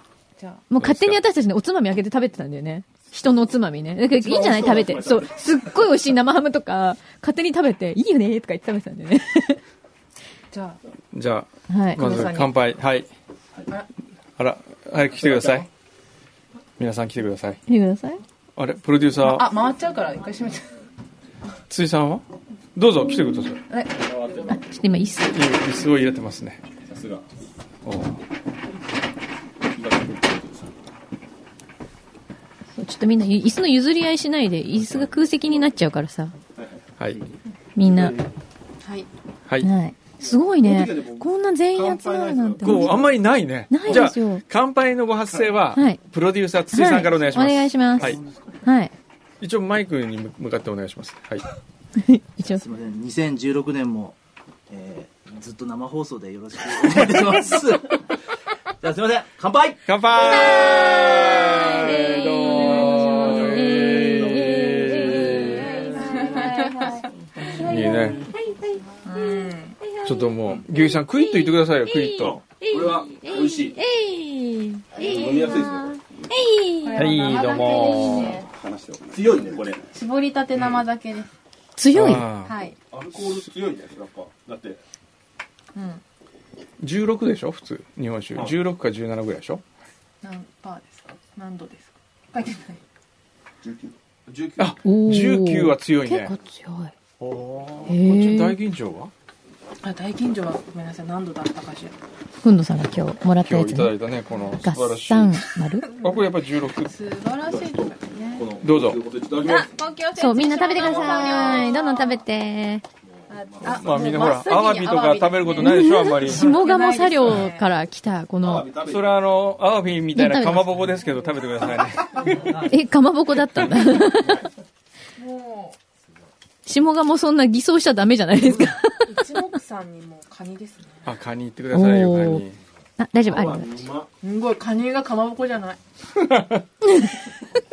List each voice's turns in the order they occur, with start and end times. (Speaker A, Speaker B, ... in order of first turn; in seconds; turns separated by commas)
Speaker A: 0.4-0.6, Speaker B: 0.7-9.6, Speaker C: 0.8-1.2, Speaker D: 4.2-5.6, Speaker A: 10.5-10.8, Speaker C: 11.1-13.1, Speaker B: 11.7-12.3, Speaker A: 12.0-12.5, Speaker C: 14.4-15.7, Speaker D: 15.2-15.7, Speaker C: 16.8-17.6, Speaker B: 17.7-18.2, Speaker C: 18.6-19.5, Speaker A: 19.2-20.7, Speaker C: 21.7-22.2, Speaker C: 22.8-23.6, Speaker A: 23.7-24.1, Speaker D: 23.9-24.9, Speaker B: 24.5-25.4, Speaker C: 25.2-26.6, Speaker D: 26.8-27.2, Speaker C: 27.9-28.2, Speaker D: 29.7-30.7, Speaker B: 32.8-36.3, Speaker D: 34.8-35.6, Speaker D: 36.6-36.8, Speaker B: 37.8-38.2, Speaker D: 37.8-38.3, Speaker A: 38.8-39.1, Speaker B: 39.6-43.1, Speaker D: 40.2-43.1, Speaker C: 42.6-48.2, Speaker B: 43.7-44.5, Speaker B: 45.7-46.0, Speaker B: 46.7-48.9, Speaker C: 49.4-51.4, Speaker B: 52.0-52.6, Speaker E: 52.5-54.2, Speaker E: 54.7-58.1, Speaker E: 58.8-59.8, Speaker C: 59.9-65.8, Speaker B: 60.1-78.3, Speaker A: 65.2-68.1, Speaker C: 67.6-68.2, Speaker A: 69.0-69.8, Speaker C: 70.0-72.4, Speaker D: 72.7-73.8, Speaker D: 74.9-76.0, Speaker A: 75.0-75.7, Speaker A: 76.8-78.5, Speaker C: 77.0-78.4, Speaker D: 78.5-79.9, Speaker A: 79.9-81.3, Speaker B: 81.8-82.3, Speaker C: 81.9-82.5, Speaker A: 82.5-82.8, Speaker D: 82.9-84.8, Speaker A: 85.8-86.0, Speaker C: 86.8-89.6, Speaker A: 90.2-92.8, Speaker D: 93.6-94.8, Speaker C: 94.6-96.3, Speaker B: 94.8-96.9, Speaker C: 97.2-99.1, Speaker B: 97.9-98.6, Speaker A: 99.8-102.0, Speaker B: 102.4-104.0, Speaker C: 103.5-106.9, Speaker B: 104.6-106.0, Speaker A: 105.9-108.5, Speaker D: 107.5-109.7, Speaker C: 108.6-109.0, Speaker A: 109.4-112.2, Speaker B: 110.2-112.8, Speaker D: 110.8-111.7, Speaker D: 113.0-114.2, Speaker A: 113.3-117.7, Speaker C: 113.6-116.6, Speaker B: 115.6-118.7, Speaker D: 118.4-119.3, Speaker C: 118.9-122.6, Speaker B: 120.1-120.9, Speaker D: 121.6-122.6, Speaker B: 122.6-124.4, Speaker D: 124.0-124.5, Speaker A: 125.2-125.8, Speaker B: 126.7-129.2, Speaker A: 129.1-131.1, Speaker C: 131.1-132.6, Speaker B: 131.7-132.4, Speaker B: 133.0-133.8, Speaker D: 133.2-134.1, Speaker A: 134.2-135.8, Speaker C: 136.2-136.6